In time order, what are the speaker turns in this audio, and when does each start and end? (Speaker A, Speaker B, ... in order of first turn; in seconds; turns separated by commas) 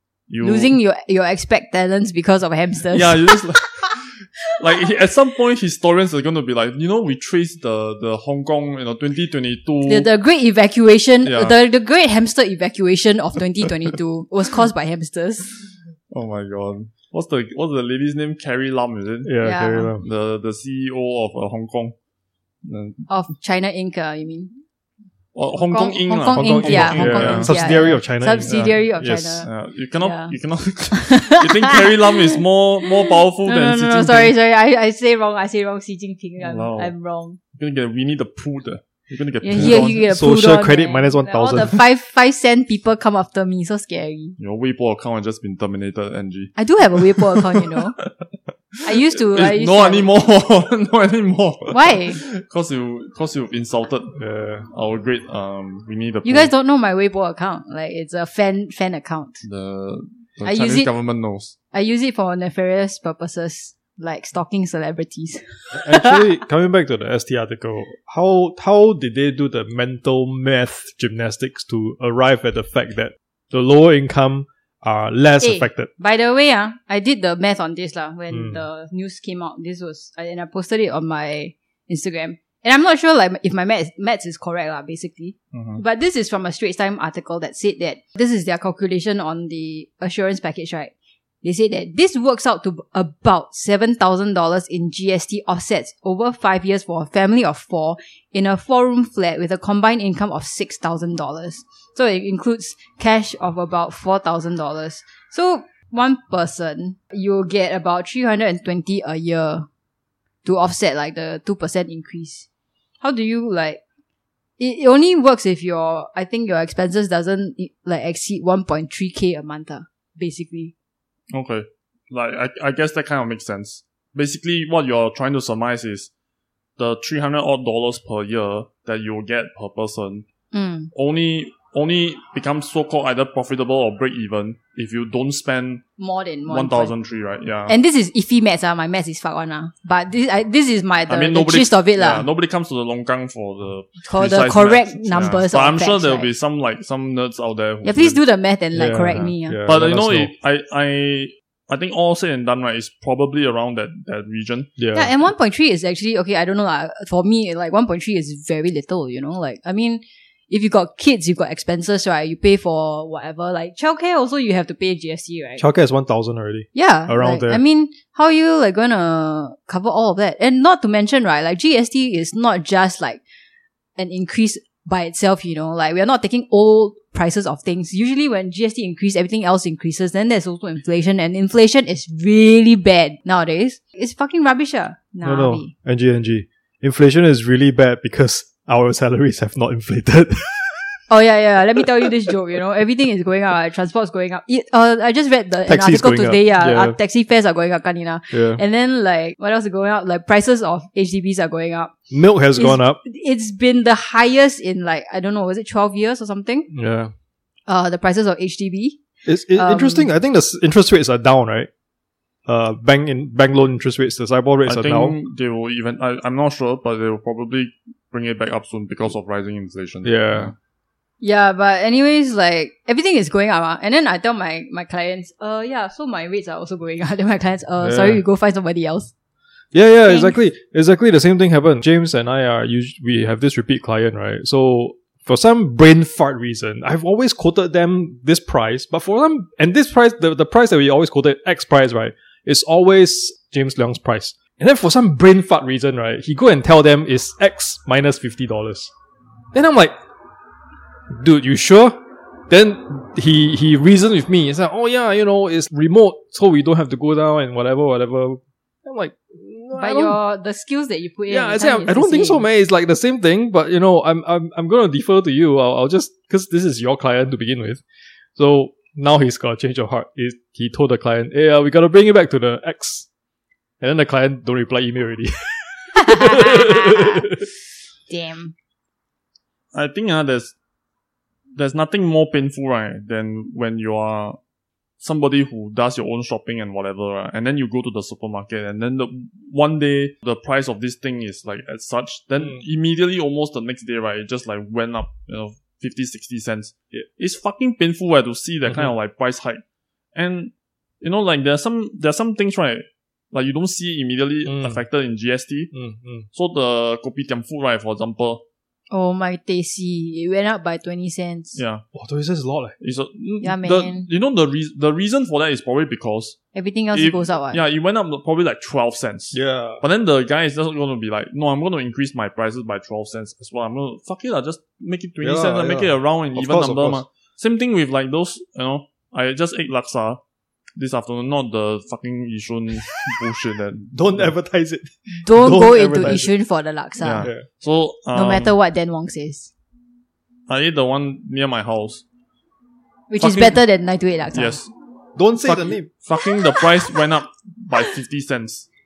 Speaker A: 0.3-0.8, Speaker B: 0.4-3.4, Speaker A: 2.9-10.1, Speaker B: 9.9-15.5, Speaker A: 11.2-11.6, Speaker A: 16.1-19.3, Speaker C: 19.2-20.0, Speaker B: 19.4-19.9, Speaker A: 20.0-21.9, Speaker A: 22.6-23.1, Speaker B: 23.1-24.6, Speaker A: 25.3-28.8, Speaker B: 25.5-29.5, Speaker C: 26.3-29.4, Speaker A: 29.4-34.3, Speaker B: 30.0-30.3, Speaker B: 30.9-32.2, Speaker B: 33.5-37.4, Speaker A: 36.4-36.9, Speaker A: 37.5-40.0, Speaker B: 39.4-44.4, Speaker C: 39.5-41.8, Speaker A: 44.4-48.1, Speaker B: 46.5-48.0, Speaker B: 48.8-50.1, Speaker A: 49.3-56.5, Speaker B: 51.7-52.2, Speaker C: 54.1-54.6, Speaker B: 56.2-59.4, Speaker A: 59.4-61.5, Speaker B: 60.4-60.9, Speaker B: 61.7-66.2, Speaker C: 65.7-75.9, Speaker B: 75.4-90.9, Speaker C: 78.3-78.6, Speaker A: 85.5-85.8, Speaker B: 91.4-109.7, Speaker B: 110.4-112.5, Speaker B: 113.0-113.8, Speaker B: 114.6-120.7, Speaker A: 121.3-126.1, Speaker A: 126.8-130.3, Speaker B: 130.5-130.9, Speaker A: 130.9-135.8, Speaker B: 136.0-136.9, Speaker A: 136.5-137.8, Speaker B: 137.7-142.2, Speaker A: 141.1-148.2, Speaker B: 144.1-146.3, Speaker B: 147.8-149.6, Speaker C: 148.7-150.3, Speaker A: 149.6-154.7, Speaker C: 154.8-155.1, Speaker B: 154.9-165.6, Speaker C: 165.6-167.6, Speaker B: 166.7-173.2, Speaker B: 174.0-185.7, Speaker C: 185.2-191.0, Speaker B: 191.1-202.0, Speaker C: 195.7-196.9, Speaker C: 198.3-198.6, Speaker C: 202.1-203.0, Speaker B: 202.5-206.7, Speaker C: 206.7-207.1, Speaker B: 207.7-209.0, Speaker C: 209.2-211.7, Speaker B: 209.5-210.1, Speaker C: 212.4-215.2, Speaker A: 214.7-220.5, Speaker C: 220.0-220.5, Speaker B: 221.2-229.1, Speaker C: 227.8-228.2, Speaker C: 229.7-248.9, Speaker B: 230.1-230.3, Speaker C: 249.5-249.9, Speaker C: 251.1-260.2, Speaker B: 259.7-262.4, Speaker C: 261.3-267.8, Speaker C: 268.4-273.1, Speaker C: 273.8-277.4, Speaker B: 276.0-277.4, Speaker B: 278.1-278.5, Speaker A: 279.7-280.5, Speaker A: 281.6-284.4, Speaker A: 285.0-299.6, Speaker A: 300.1-305.7, Speaker C: 304.4-304.8, Speaker C: 305.7-306.3, Speaker A: 306.3-308.4, Speaker B: 308.9-311.6, Speaker A: 311.5-311.8, Speaker C: 311.9-312.7, Speaker A: 312.8-316.4, Speaker B: 313.4-314.1, Speaker B: 316.5-317.6, Speaker A: 316.9-330.2, Speaker C: 319.3-319.8, Speaker C: 325.2-327.0, Speaker A: 330.8-334.3, Speaker C: 333.9-336.3, Speaker B: 335.1-337.3, Speaker A: 337.0-338.5, Speaker B: 338.1-339.5, Speaker A: 340.5-342.0, Speaker B: 343.1-344.6, Speaker A: 343.2-343.6, Speaker A: 344.3-344.7, Speaker C: 345.1-345.9, Speaker A: 345.4-348.7